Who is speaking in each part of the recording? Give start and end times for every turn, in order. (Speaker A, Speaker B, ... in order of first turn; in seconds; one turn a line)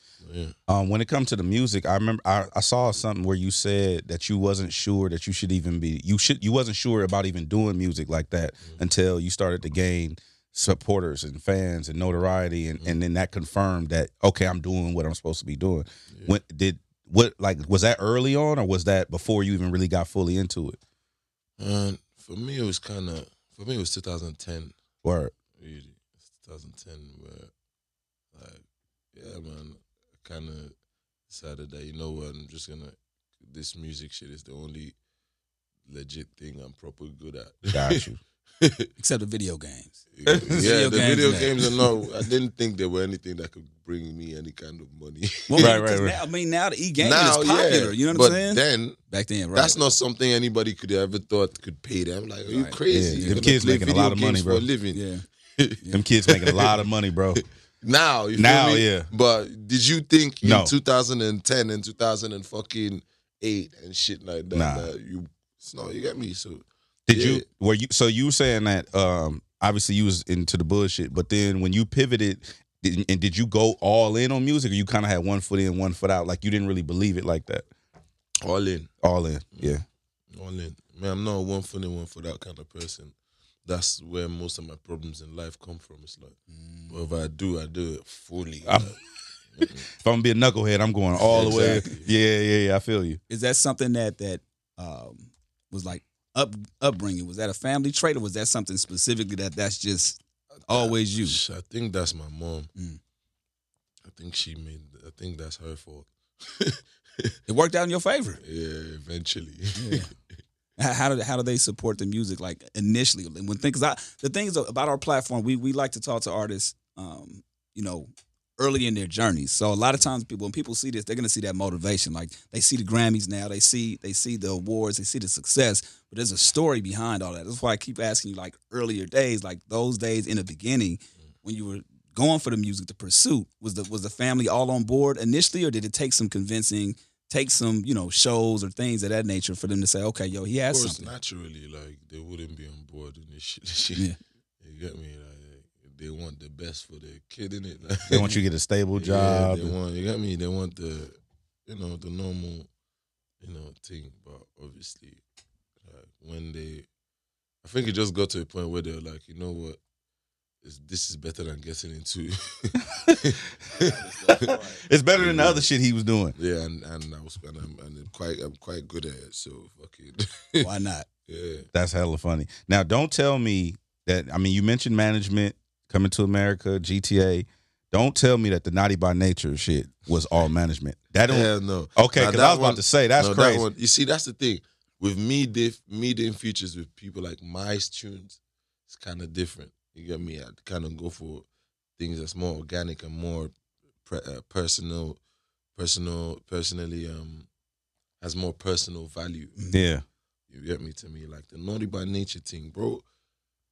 Speaker A: 0.2-0.5
Speaker B: 0.7-20.8
Speaker A: 16.1-16.4
Speaker A: 21.6-24.7
Speaker B: 25.0-25.3
Speaker A: 25.6-27.5
Speaker A: 28.3-30.7
Speaker A: 31.3-34.9
Speaker A: 35.9-38.0
Speaker B: 37.7-38.2
Speaker A: 38.6-38.9
Speaker C: 39.0-41.6
Speaker A: 40.1-45.8
Speaker B: 40.2-40.7
Speaker C: 45.5-49.8
Speaker B: 45.6-46.2
Speaker A: 47.0-49.0
Speaker A: 49.5-55.0
Speaker C: 52.5-53.5
Speaker B: 52.9-54.6
Speaker C: 54.9-55.2
Speaker A: 55.6-56.8
Speaker C: 55.8-56.1
Speaker B: 55.9-57.4
Speaker A: 57.4-67.4
Speaker B: 58.4-59.1
Speaker B: 60.4-60.7
Speaker B: 64.5-64.9
Speaker B: 67.1-77.7
Speaker A: 78.4-78.9
Speaker B: 79.0-79.8
Speaker A: 79.5-79.8
Speaker A: 80.3-83.1
Speaker A: 83.7-86.3
Speaker C: 86.5-87.0
Speaker A: 86.9-89.0
Speaker B: 88.6-89.0
Speaker A: 89.5-89.8
Speaker B: 89.6-93.2
Speaker A: 91.2-92.1
Speaker C: 91.2-91.9
Speaker C: 93.3-101.4
Speaker A: 100.7-102.7
Speaker A: 104.1-107.3
Speaker C: 107.5-108.4
Speaker A: 108.4-110.1
Speaker C: 109.7-110.1
Speaker C: 110.8-141.1
Speaker A: 140.7-144.1
Speaker A: 144.6-148.3
Speaker B: 148.1-149.8
Speaker A: 148.9-152.7
Speaker A: 153.4-155.2
Speaker A: 155.8-156.9
Speaker A: 157.6-159.8
Speaker A: 160.6-164.5
Speaker B: 162.9-163.3
Speaker C: 163.7-164.8
Speaker B: 164.8-166.3
Speaker A: 165.2-165.7
Speaker A: 166.3-170.7
Speaker C: 170.6-171.1
Speaker A: 171.3-171.7
Speaker B: 171.7-183.7
Speaker A: 181.3-191.4
Speaker A: 192.0-193.5
Speaker A: 194.1-195.2
Speaker A: 195.8-197.5
Speaker A: 198.2-199.6
Speaker B: 199.7-200.0
Speaker A: 200.5-203.0